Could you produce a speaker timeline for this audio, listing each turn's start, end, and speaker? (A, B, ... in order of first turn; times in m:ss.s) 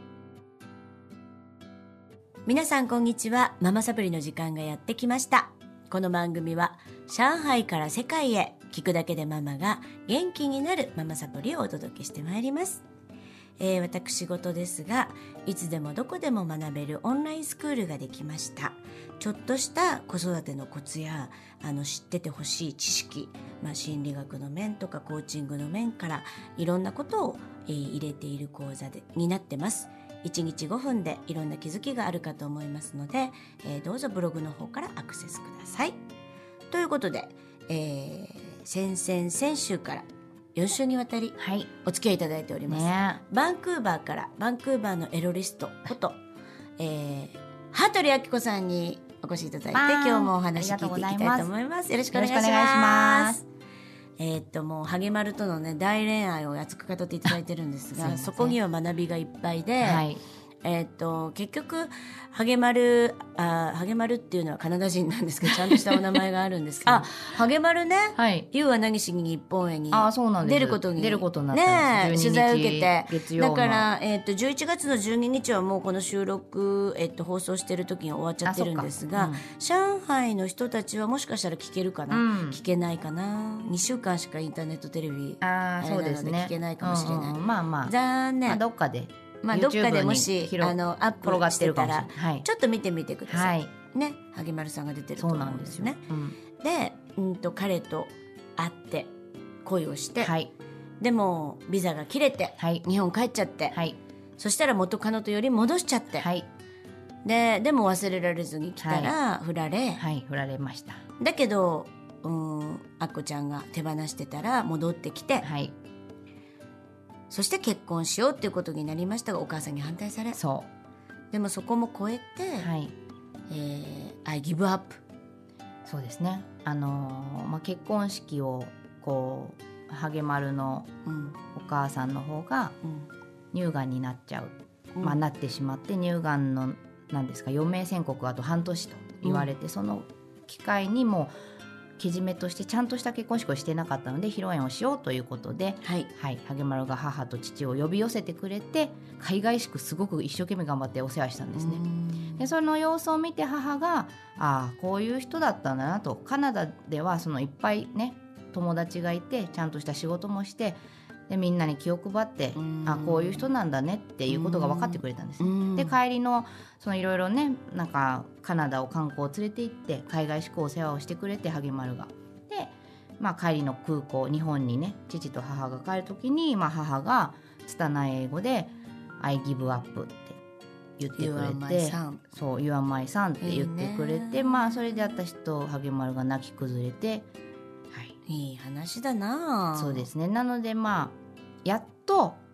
0:02.5-0:12.8 A
0:13.6-0:36.0 A
0:36.7-0:46.2 A
0:41.4-0:41.7 B
0:42.7-0:43.2 B
0:46.8-0:53.4 A
0:49.7-0:51.5 B
0:52.1-0:53.4 B
0:54.2-1:00.1 A
0:58.0-0:58.6 B
0:59.8-1:00.2 B
1:00.6-1:28.6 A
1:06.8-1:07.1 B
1:08.2-1:08.5 B
1:09.9-1:13.9 B
1:18.4-1:19.4 B
1:22.1-1:22.6 B
1:25.4-1:27.9 B
1:28.5-1:32.4 B
1:29.4-1:36.0 A
1:33.3-1:33.7 B
1:35.2-1:36.4 B
1:36.5-1:39.1 A
1:39.6-1:40.3 A
1:40.2-1:40.5 B
1:41.0-1:43.8 A
1:42.6-1:42.8 B
1:43.7-1:44.0 B
1:44.4-1:46.3 A
1:46.2-1:46.5 B
1:47.2-1:50.0 A
1:48.8-1:49.2 B
1:50.0-1:51.0 B
1:51.2-1:55.5 A
1:55.4-1:55.7 B
1:57.3-2:00.4 A
2:00.4-2:00.7 B
2:01.3-2:02.7 A
2:02.6-2:02.9 B
2:03.5-2:05.0 A
2:05.8-2:10.9 B
2:11.0-2:11.4 A
2:11.5-2:12.8 B
2:13.5-2:21.3 B
2:15.0-2:15.2 A
2:19.2-2:19.5 A
2:22.0-2:31.8 B
2:25.8-2:26.1 A
2:31.6-2:32.5 A
2:32.4-3:00.4 B
2:42.6-2:43.5 A
2:44.3-2:46.0 A
3:01.0-3:07.3 B
3:01.2-3:02.2 A
3:03.4-3:05.1 A
3:08.3-3:10.1 A
3:09.8-3:12.4 B